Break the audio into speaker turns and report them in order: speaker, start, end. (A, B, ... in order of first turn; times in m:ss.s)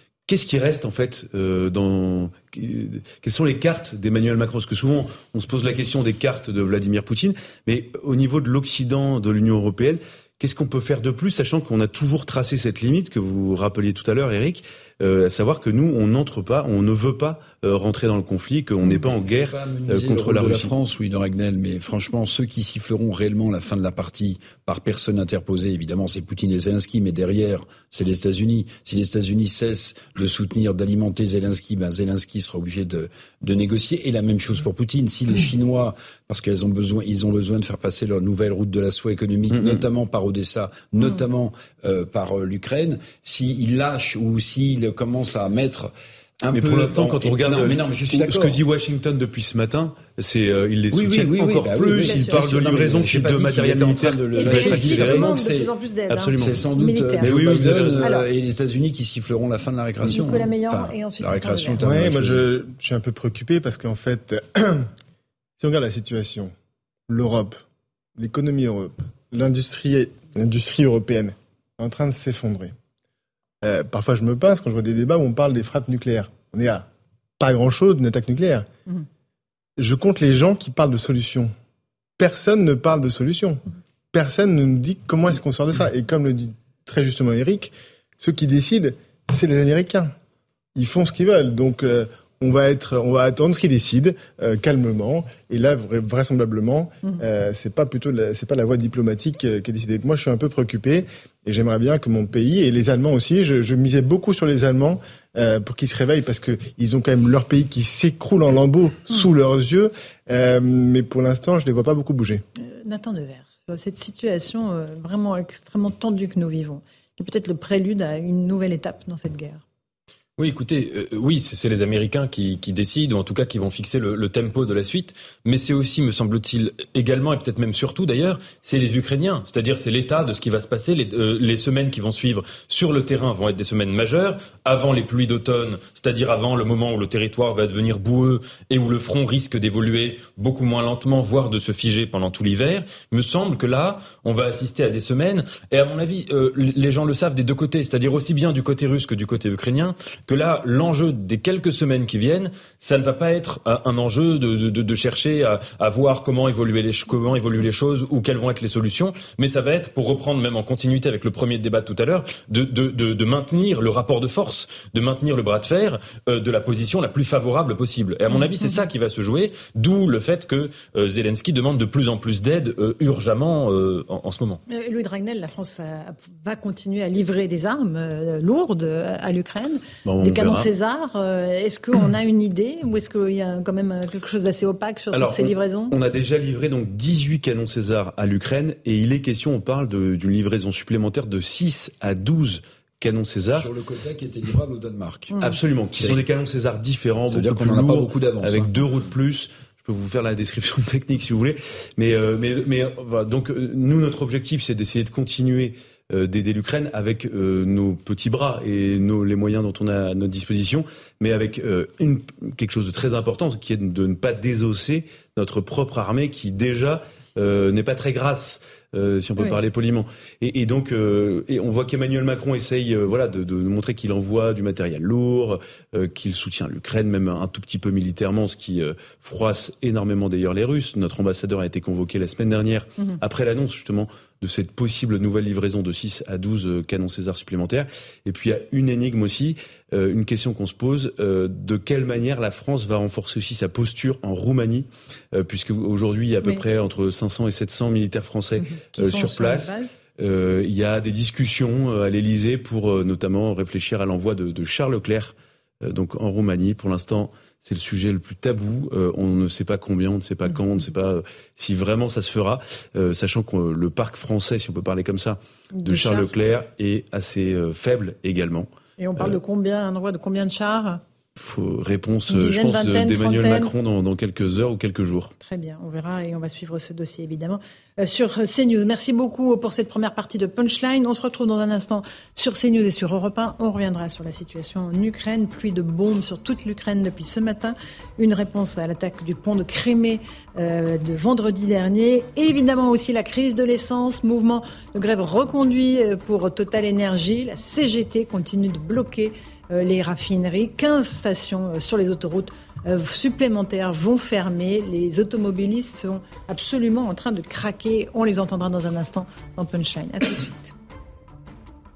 0:00.3-0:20.7 A
0:18.8-0:48.6 B
0:39.5-0:39.8 A
0:46.5-0:55.4 A
0:50.9-0:55.7 B
0:52.0-0:52.4 C
0:54.3-0:57.3 C
0:56.1-0:56.7 A
0:56.4-1:02.4 B
0:57.2-0:58.1 A
0:58.0-0:58.3 C
1:00.0-1:01.8 C
1:01.8-1:04.9 D
1:05.6-1:06.5 D
1:07.1-1:07.6 D
1:08.2-1:12.7 D
1:13.6-1:16.9 D
1:17.4-1:18.7 D
1:19.8-1:21.5 D
1:22.2-1:23.6 D
1:24.1-1:30.1 D
1:30.8-1:52.4 D
1:52.6-1:59.6 C
2:00.4-2:54.6 E
2:48.3-2:48.8 C
2:54.7-3:05.9 C
3:00.0-3:00.7 A
3:05.1-3:13.7 A
3:13.5-3:15.3 B
3:15.4-4:29.4 A
3:16.0-3:16.2 B
3:17.3-3:18.8 B
4:08.6-4:09.9 C
4:25.7-4:26.3 C
4:29.0-4:31.0 C
4:31.4-4:35.3 A
4:32.3-4:33.7 C
4:35.4-5:10.7 C